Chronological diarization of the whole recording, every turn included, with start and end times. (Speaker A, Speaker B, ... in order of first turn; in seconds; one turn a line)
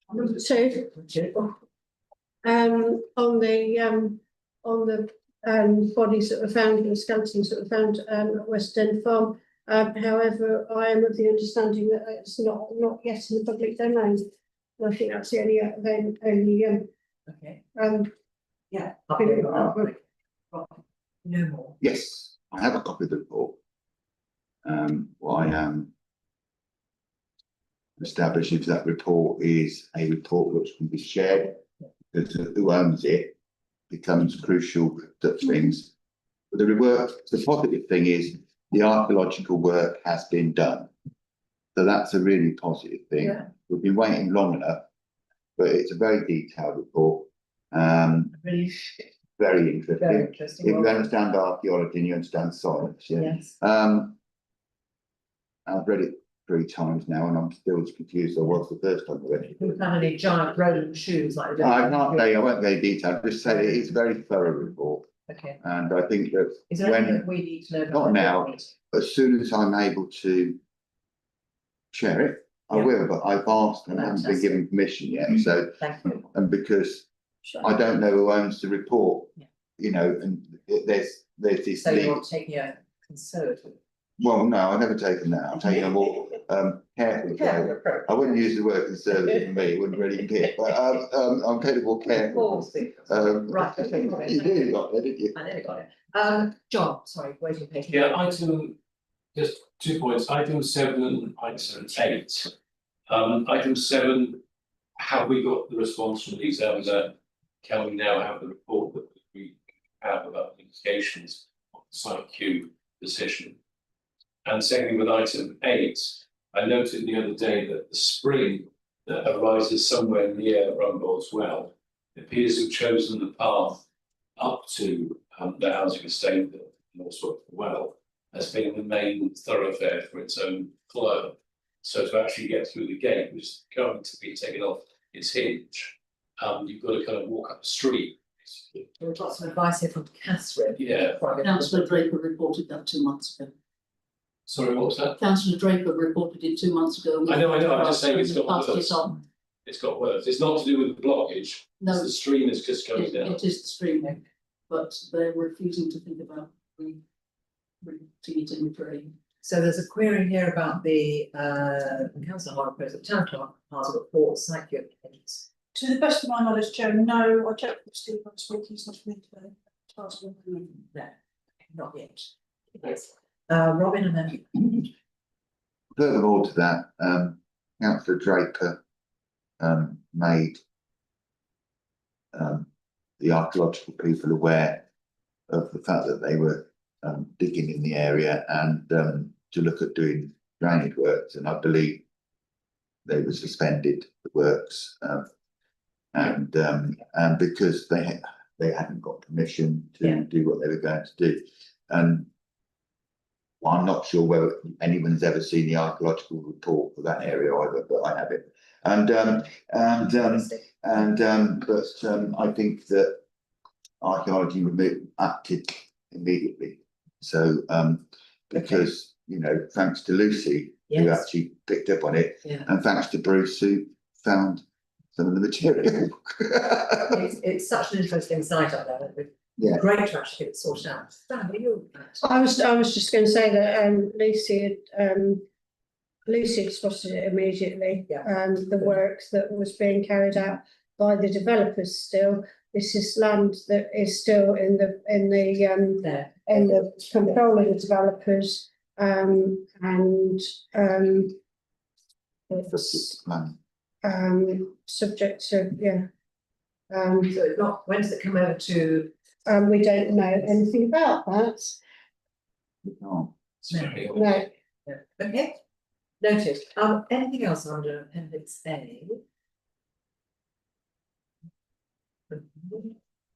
Speaker A: 0.1-0.9
Speaker B: 0.9-1.5
Speaker A: 2.4-16.9
Speaker B: 17.3-17.6
Speaker A: 17.8-18.1
Speaker B: 18.7-20.0
Speaker A: 19.2-19.9
Speaker B: 20.5-21.8
Speaker C: 21.8-23.6
Speaker C: 24.6-25.9
Speaker C: 28.0-31.6
Speaker C: 32.1-33.4
Speaker C: 33.9-35.9
Speaker C: 36.5-40.9
Speaker C: 41.8-44.9
Speaker B: 43.2-43.5
Speaker C: 45.6-48.4
Speaker B: 48.4-49.0
Speaker C: 49.4-54.2
Speaker B: 50.0-51.0
Speaker B: 53.2-53.5
Speaker C: 55.7-59.8
Speaker B: 59.6-62.4
Speaker C: 61.6-65.1
Speaker B: 63.5-63.8
Speaker B: 65.3-65.6
Speaker C: 65.6-67.3
Speaker B: 66.7-68.7
Speaker C: 67.9-70.6
Speaker C: 71.9-77.1
Speaker B: 73.9-74.6
Speaker B: 75.8-76.3
Speaker C: 77.6-82.2
Speaker B: 81.8-83.8
Speaker C: 84.2-95.3
Speaker B: 87.3-88.4
Speaker B: 92.1-94.8
Speaker B: 95.3-98.3
Speaker D: 97.9-98.8
Speaker D: 99.3-102.5
Speaker D: 103.1-104.4
Speaker D: 105.0-113.6
Speaker D: 114.5-123.8
Speaker D: 124.4-138.7
Speaker B: 139.0-142.0
Speaker D: 140.8-141.2
Speaker E: 141.3-143.5
Speaker D: 144.5-145.2
Speaker E: 145.2-149.2
Speaker D: 147.2-149.1
Speaker D: 149.7-153.4
Speaker E: 151.8-152.2
Speaker E: 152.8-157.0
Speaker E: 157.8-159.1
Speaker B: 159.4-165.5
Speaker F: 165.7-170.7
Speaker B: 171.7-174.9
Speaker C: 176.0-178.8
Speaker C: 179.6-180.6
Speaker C: 182.3-182.7
Speaker C: 183.2-184.8
Speaker C: 185.5-192.1
Speaker C: 193.1-195.3
Speaker C: 196.1-202.3
Speaker C: 203.6-213.2
Speaker C: 214.0-224.6
Speaker B: 220.9-221.3
Speaker C: 225.2-227.3
Speaker B: 227.1-232.2
Speaker C: 229.6-229.8
Speaker A: 232.2-235.4
Speaker A: 236.3-251.4
Speaker B: 246.0-246.6
Speaker A: 252.5-253.1
Speaker C: 252.6-253.6
Speaker A: 254.0-256.1
Speaker A: 256.9-257.4
Speaker B: 257.3-259.1
Speaker A: 259.5-261.8
Speaker C: 262.9-263.4
Speaker D: 263.6-264.3
Speaker B: 263.7-264.1
Speaker A: 264.1-264.5
Speaker B: 264.9-265.6
Speaker B: 266.2-269.2
Speaker B: 272.3-273.0